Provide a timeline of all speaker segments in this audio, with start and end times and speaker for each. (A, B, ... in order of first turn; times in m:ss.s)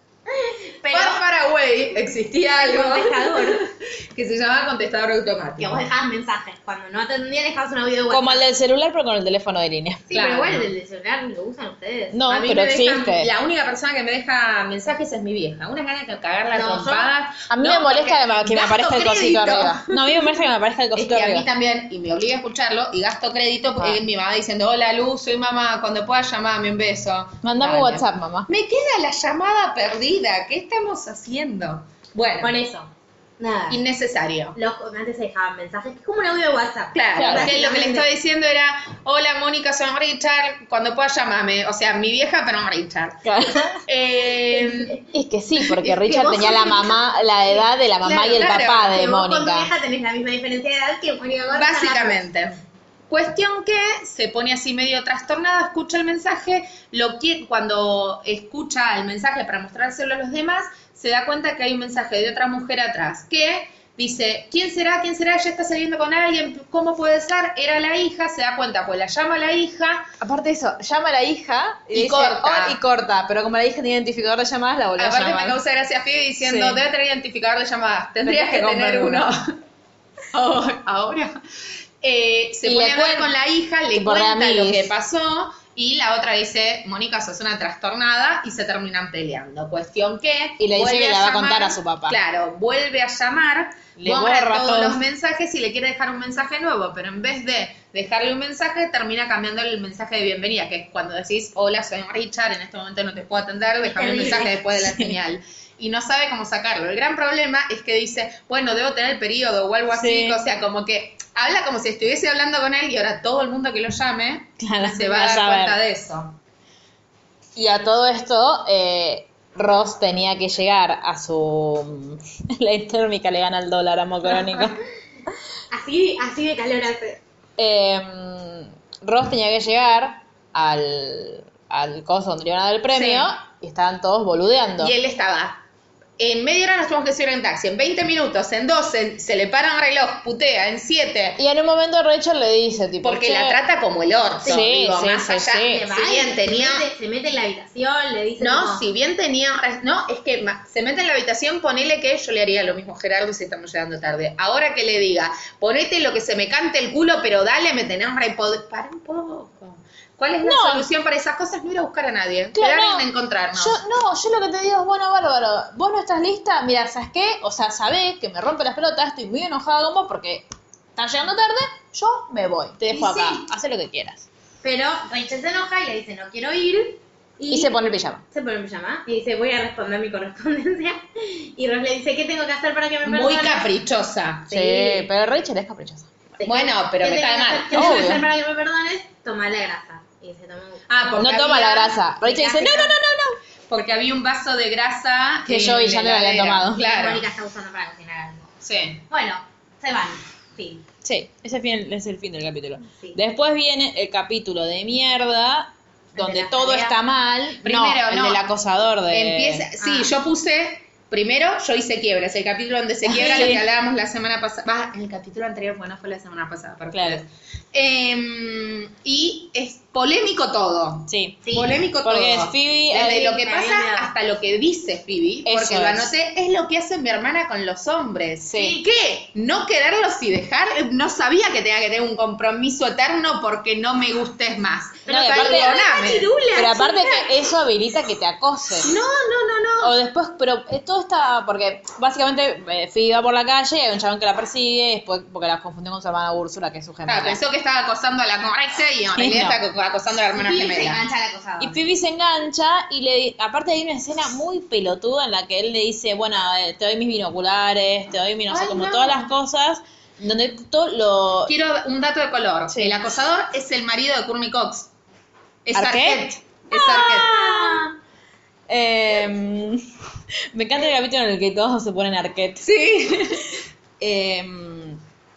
0:00.3-0:01.2 A
0:00.9-0:05.9 B
0:02.6-0:03.6 A
0:05.6-0:08.4 A
0:08.1-0:10.1 C
0:10.1-0:13.1 A
0:10.1-0:10.7 B
0:12.1-0:13.3 C
0:13.0-0:20.0 B
0:16.5-0:17.1 A
0:17.5-0:21.5 C
0:21.0-0:32.5 B
0:27.4-0:28.5 C
0:32.4-0:33.8 A
0:33.7-0:34.6 B
0:34.6-0:38.1 A
0:36.9-0:45.0 B
0:37.2-0:37.6 C
0:43.2-0:43.8 C
0:44.5-0:45.0 A
0:45.1-0:49.7 C
0:46.0-0:47.0 A
0:48.0-0:52.2 A
0:48.1-0:49.0 B
0:51.5-0:52.6 B
0:53.1-1:10.1 B
1:10.2-1:15.6 C
1:11.9-1:12.8 B
1:15.0-1:19.6 B
1:16.4-1:16.8 C
1:18.2-1:19.3 C
1:20.3-1:21.3 B
1:22.0-1:56.4 B
1:22.6-1:23.3 C
1:24.0-1:24.9 C
1:30.6-1:32.2 C
1:34.0-1:35.0 C
1:43.8-1:44.6 A
1:44.3-1:45.2 C
1:49.9-1:50.4 C
1:54.6-1:55.8 C
1:57.6-2:04.8 C
2:05.7-2:07.2 A
2:07.6-2:15.0 C
2:12.9-2:13.3 B
2:14.8-2:15.6 B
2:16.2-2:21.4 B
2:21.4-2:23.6 C
2:23.0-2:26.9 B
2:24.4-2:25.8 C
2:25.6-2:28.8 A
2:28.4-2:43.8 B
2:40.4-2:40.9 C
2:42.6-2:54.3 C
2:52.9-2:53.4 A
2:54.6-2:57.8 A
2:57.5-2:58.2 C
2:58.3-3:03.7 A
3:03.0-3:04.5 B
3:04.5-3:05.1 A
3:04.5-3:06.2 C
3:06.4-3:11.2 A
3:06.4-3:08.0 B
3:07.7-3:08.2 C
3:10.9-3:12.0 B
3:11.2-3:13.4 C
3:12.2-3:13.0 A
3:13.7-3:17.3 B
3:15.5-3:16.8 C
3:16.7-3:18.6 A
3:18.6-3:19.0 B
3:19.1-3:20.8 A
3:21.0-3:29.7 C
3:26.2-3:27.0 A
3:27.6-3:28.5 B
3:29.1-3:56.3 B
3:29.8-3:30.1 A
3:33.1-3:33.6 C
3:36.9-3:37.2 C
3:41.1-3:41.4 C
3:41.4-3:41.8 A
3:42.0-3:43.3 C
3:43.0-3:44.1 A
3:45.5-3:46.1 C
3:48.5-3:48.8 C
3:55.1-3:57.3 A
3:55.1-3:55.8 C
3:56.5-3:58.9 C
3:58.8-3:59.9 B
3:59.8-4:07.4 C
4:07.1-4:11.0 B
4:09.2-4:09.6 C
4:10.4-4:11.8 A
4:11.6-4:21.5 C
4:18.5-4:19.3 B
4:21.5-4:24.9 B
4:22.7-4:23.0 C
4:25.6-4:27.4 B
4:25.7-4:26.4 C
4:26.7-4:27.9 A
4:28.7-4:29.8 C
4:30.5-4:32.7 C
4:32.6-4:33.4 B
4:34.0-4:35.0 C